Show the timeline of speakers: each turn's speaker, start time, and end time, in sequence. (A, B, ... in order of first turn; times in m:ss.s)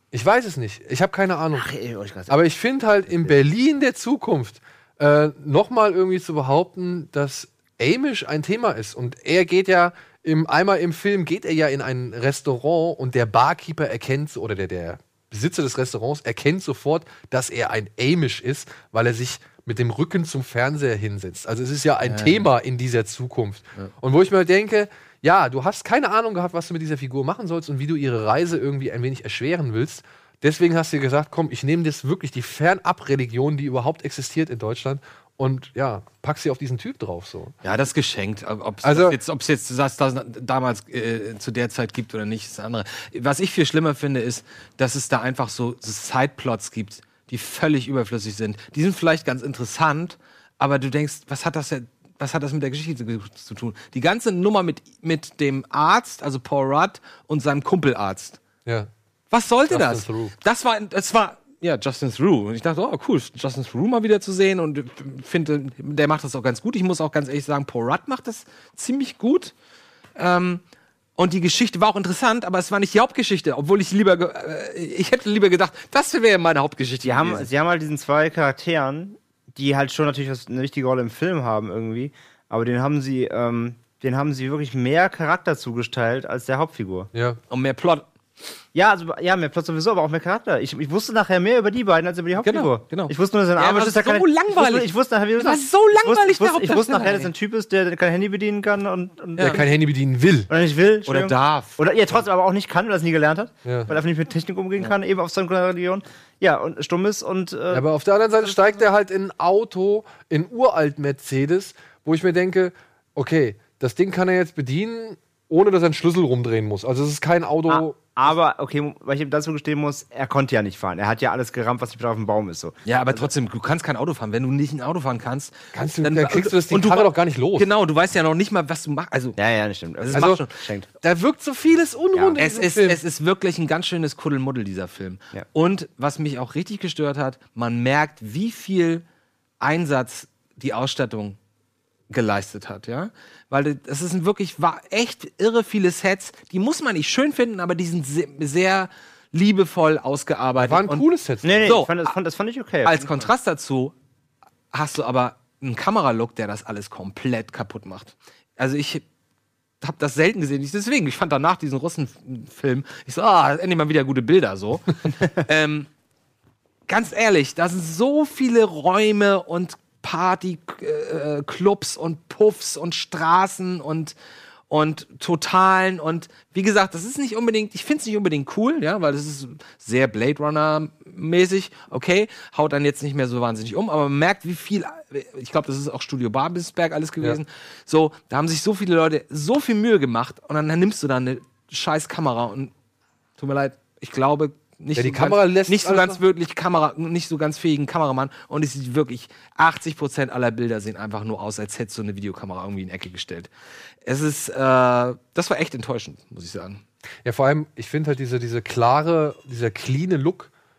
0:00.1-0:01.7 A
0:01.5-0:02.3 B
0:02.3-0:37.5 A
0:22.0-0:22.5 C
0:37.6-0:58.4 C
0:38.8-0:39.2 A
0:59.3-1:09.5 C
0:59.7-1:00.3 A
1:10.2-1:10.6 C
1:11.2-1:17.5 C
1:17.0-1:27.1 B
1:27.1-1:27.4 A
1:27.5-1:28.1 C
1:28.7-1:39.7 B
1:32.4-1:37.3 C
1:39.4-1:40.5 A
1:40.5-1:47.8 B
1:41.0-1:41.8 C
1:43.6-1:43.9 A
1:47.7-1:58.0 A
1:57.7-2:03.3 B
2:02.8-2:09.4 C
2:05.7-2:07.7 A
2:09.4-2:10.9 B
2:10.0-2:10.5 C
2:10.1-2:10.4 A
2:11.0-2:13.0 A
2:12.4-2:19.0 C
2:19.6-2:21.4 C
2:22.1-2:31.1 C
2:30.6-2:31.8 A
2:31.4-2:33.3 B
2:31.6-2:32.1 C
2:32.8-2:33.9 C
2:34.7-2:39.0 C
2:39.8-2:45.9 C
2:46.9-2:54.1 C
2:54.7-3:12.7 C
3:13.4-3:23.5 C
3:14.9-3:16.2 A
3:24.0-3:26.8 C
3:27.2-3:30.5 A